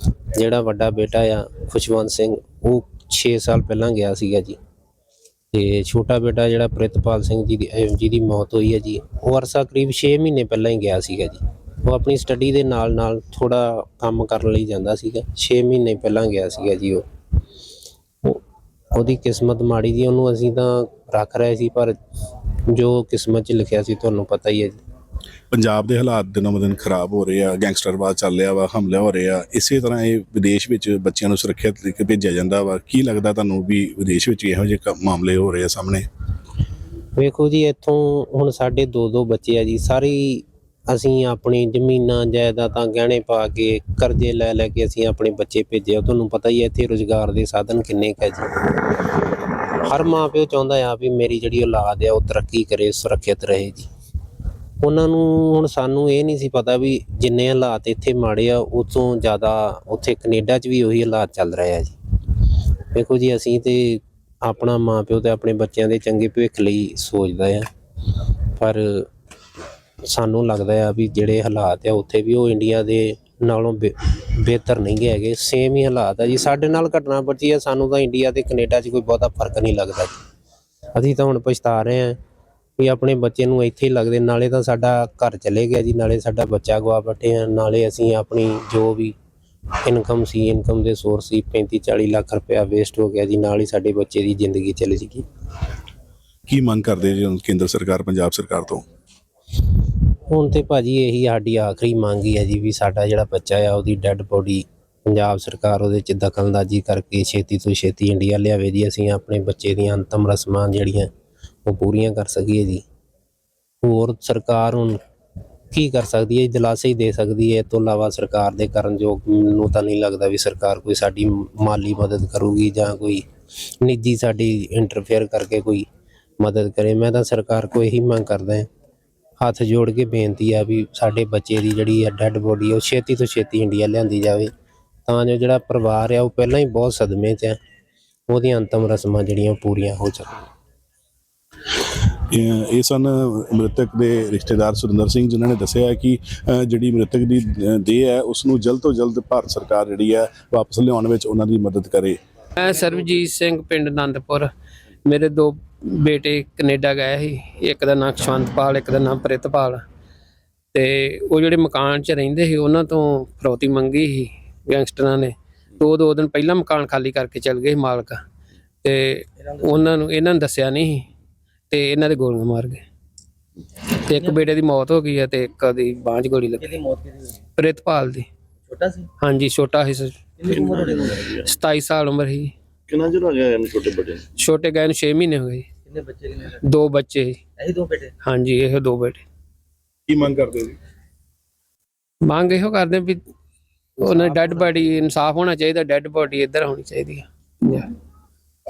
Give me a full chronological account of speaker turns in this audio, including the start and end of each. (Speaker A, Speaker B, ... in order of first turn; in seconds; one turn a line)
Speaker A: 0.3-4.6
Speaker A: 5.5-17.0
Speaker A: 18.9-21.9
Speaker A: 22.7-24.8
Speaker B: 25.5-36.1
Speaker A: 37.2-48.5
Speaker A: 49.8-53.9
Speaker A: 54.8-61.9
Speaker A: 62.9-67.7
Speaker A: 68.5-69.1
Speaker A: 70.0-80.2
Speaker A: 81.0-82.2
Speaker A: 82.8-89.2
Speaker A: 89.8-95.2
Speaker B: 96.5-98.8
Speaker A: 100.3-111.1
Speaker A: 111.6-112.8
Speaker A: 113.8-115.0
Speaker A: 115.7-123.2
Speaker A: 123.8-125.9
Speaker A: 126.4-128.7
Speaker A: 129.4-134.5
Speaker A: 135.1-137.6
Speaker A: 138.3-140.5
Speaker B: 142.1-152.2
Speaker C: 152.6-154.5
Speaker C: 155.0-159.8
Speaker C: 160.7-168.2
Speaker C: 168.8-171.1
Speaker C: 171.7-172.8
Speaker C: 173.9-176.7
Speaker D: 176.6-177.3
Speaker C: 177.6-178.3
Speaker D: 178.7-179.1
Speaker C: 179.2-180.2
Speaker D: 180.4-181.3
Speaker E: 180.5-181.5
Speaker C: 181.4-182.5
Speaker E: 182.9-184.2
Speaker C: 184.4-185.7
Speaker D: 185.9-186.6
Speaker C: 186.6-187.4
Speaker D: 187.6-188.1
Speaker C: 188.2-189.2
Speaker B: 190.1-190.8
Speaker C: 192.2-193.2
Speaker C: 194.0-197.9